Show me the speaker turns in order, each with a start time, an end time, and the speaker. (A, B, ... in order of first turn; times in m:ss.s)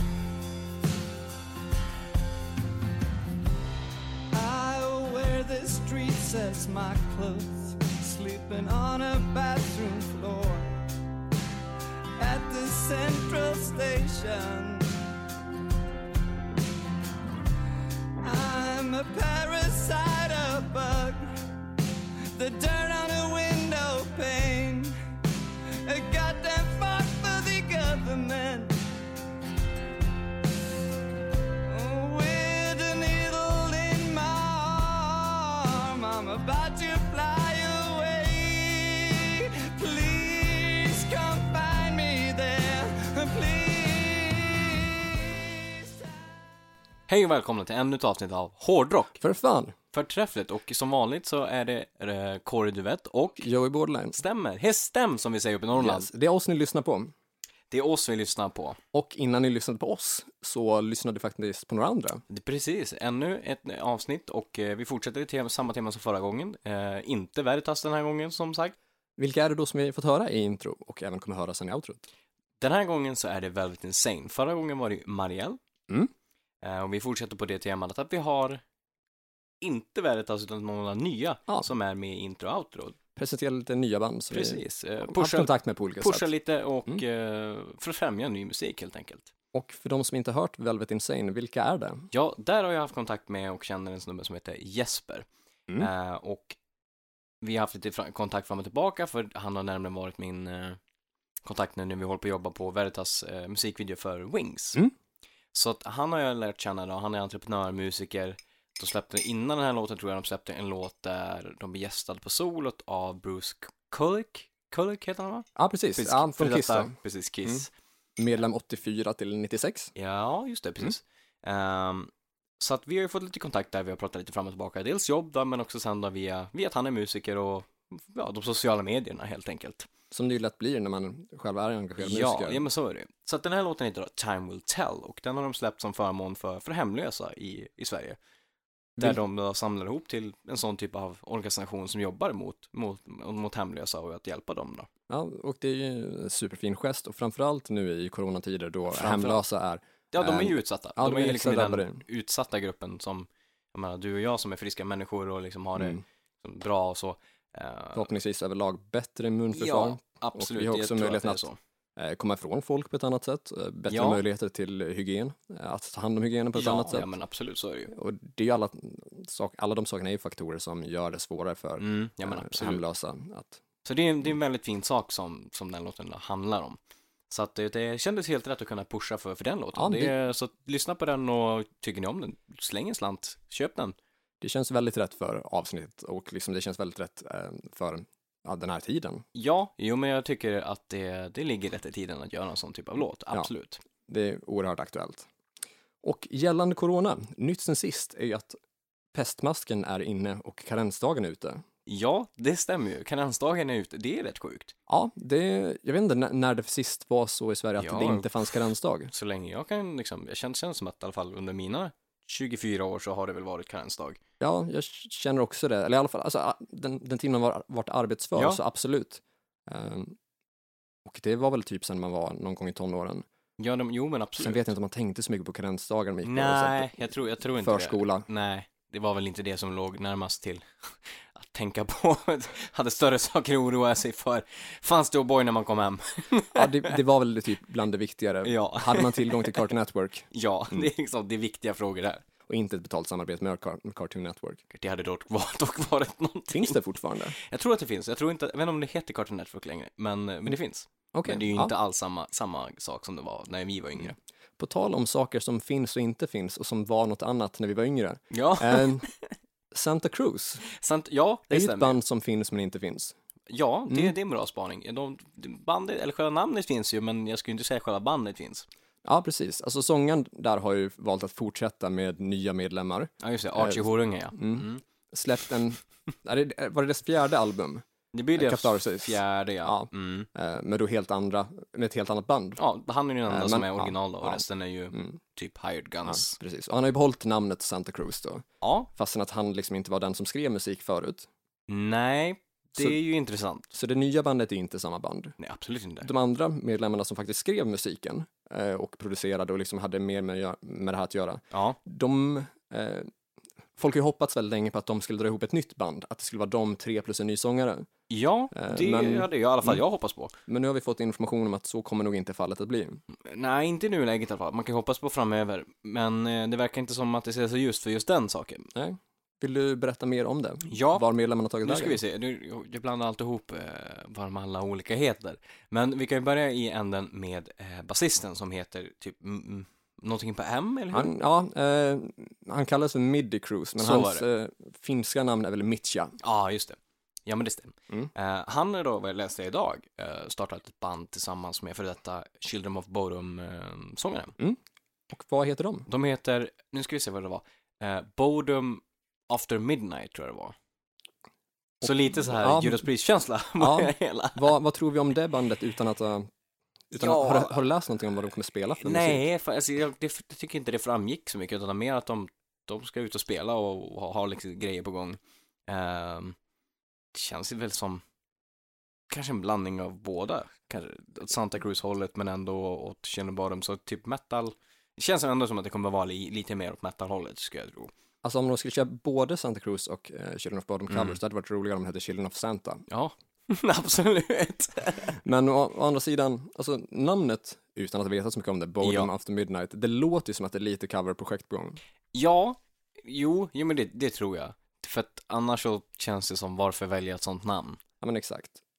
0:04.3-0:10.9 A
0:12.2-0:15.0 A
0:18.2-0:21.4 A
0:22.3-0:25.0 A
0:25.8-0:28.8 A
0:31.6-0:46.0 A
0:47.1-0:49.2 B
0:49.2-0:49.8 C
0:49.9-0:53.5 B
0:53.4-0:54.2 C
0:54.1-0:56.1 B
0:55.8-0:57.1 C
0:57.7-0:58.8 B
0:58.9-1:02.2 C
1:02.3-1:08.8 B
1:09.2-1:12.1 C
1:12.6-1:15.6 B
1:16.6-1:18.6 B
1:19.6-1:23.0 B
1:23.2-1:26.3 C
1:24.3-1:29.3 B
1:29.5-1:32.1 C
1:32.1-1:35.3 B
1:35.8-1:36.6 B
1:37.4-1:40.8 B
1:41.4-1:44.8 B
1:45.5-1:57.7 B
1:55.6-1:56.9 C
1:58.2-1:59.9 C
2:00.0-2:09.9 B
2:10.1-2:12.6 C
2:12.0-2:18.2 B
2:19.0-2:24.9 B
2:25.1-2:32.0 C
2:28.9-2:29.4 B
2:30.1-2:38.1 B
2:38.0-2:41.4 C
2:39.5-2:41.6 B
2:42.0-2:47.1 C
2:43.9-2:44.2 B
2:46.6-2:47.9 B
2:47.9-2:53.6 C
2:51.8-2:52.8 B
2:53.8-2:56.8 B
2:57.3-3:04.0 B
2:59.8-3:00.1 C
3:04.4-3:09.2 C
3:09.4-3:13.8 B
3:14.1-3:15.3 C
3:16.0-3:18.6 C
3:19.1-3:21.6 C
3:21.9-3:24.7 B
3:24.9-3:29.1 C
3:27.8-3:34.2 B
3:34.4-3:40.2 C
3:38.4-3:38.6 B
3:41.0-3:43.2 C
3:43.6-3:44.7 B
3:44.4-3:48.3 C
3:46.2-3:56.9 B
3:56.5-4:00.9 C
3:58.4-3:59.6 B
4:00.3-4:02.2 B
4:02.5-4:04.6 C
4:04.7-4:06.8 B
4:06.5-4:07.4 C
4:07.4-4:14.2 B
4:11.1-4:11.7 C
4:14.6-4:19.1 C
4:18.3-4:19.3 B
4:19.7-4:20.6 C
4:20.7-4:22.0 B
4:21.5-4:23.2 C
4:23.5-4:28.7 B
4:29.0-4:37.8 C
4:33.2-4:34.8 B
4:38.1-4:40.3 B
4:38.4-4:42.6 C
4:42.6-4:46.4 B
4:43.3-4:45.2 C
4:46.1-4:51.3 C
4:48.6-4:48.9 B
4:51.7-4:53.7 B
4:53.7-4:55.4 C
4:55.4-4:56.1 B
4:56.0-5:03.1 C
5:01.5-5:01.8 B
5:03.8-5:07.9 C
5:08.1-5:10.4 B
5:08.5-5:09.8 C
5:10.5-5:13.0 C
5:13.2-5:18.7 B
5:18.8-5:22.0 C
5:20.7-5:21.1 B
5:21.6-5:31.2 B
5:30.9-5:36.2 C
5:33.8-5:34.2 B
5:36.2-5:44.4 B
5:45.1-5:45.9 C
5:45.9-5:50.6 B
5:51.8-5:52.9 C
5:51.8-5:54.6 B
5:53.6-5:56.3 C
5:56.9-5:59.2 C
5:57.0-5:57.6 B
5:58.8-6:06.4 B
6:07.1-6:08.0 B
6:09.1-6:17.9 B
6:18.2-6:22.8 C
6:20.9-6:21.2 B
6:22.9-6:25.2 B
6:25.2-6:31.8 C
6:28.8-6:29.1 B
6:32.1-6:37.8 B
6:38.0-6:38.6 C